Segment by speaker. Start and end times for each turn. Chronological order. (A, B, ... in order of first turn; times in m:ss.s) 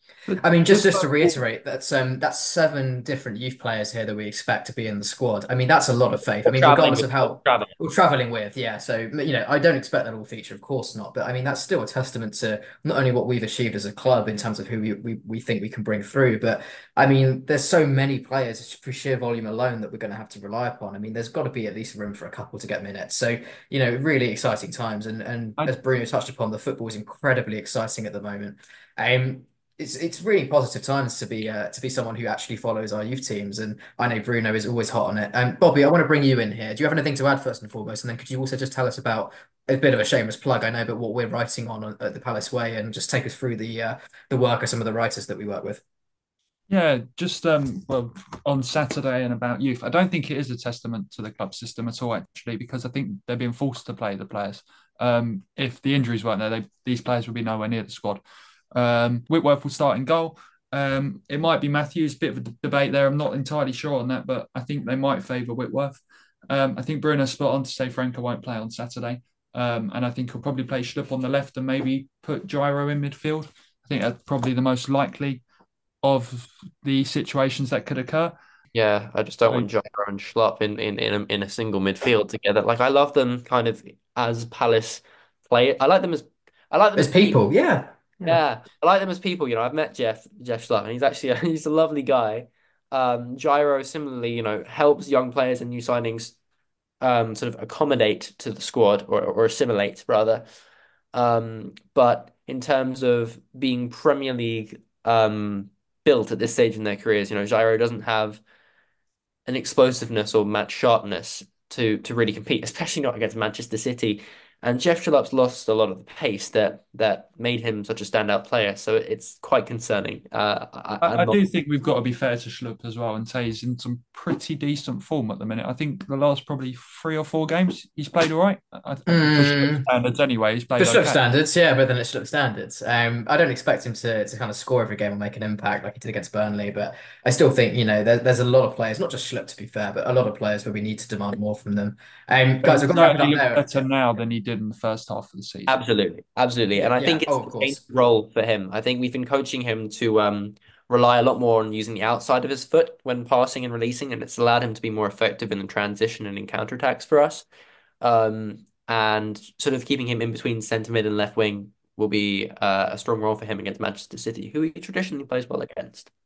0:00.3-0:01.4 A
0:00.4-0:45.8 B
0:06.4-0:07.7 A
0:46.7-0:58.2 C
0:58.7-1:15.4 C
1:16.0-1:18.4 C
1:18.7-1:27.4 A
1:27.0-1:28.4 B
1:28.2-1:36.4 A
1:37.0-1:40.4 A
1:41.1-1:48.4 A
1:49.4-2:01.4 A
2:01.0-2:11.2 C
2:09.1-2:09.9 B
2:10.8-2:23.8 B
2:22.6-2:25.8 C
2:25.7-2:37.4 A
2:26.8-2:27.8 B
2:38.0-2:46.1 A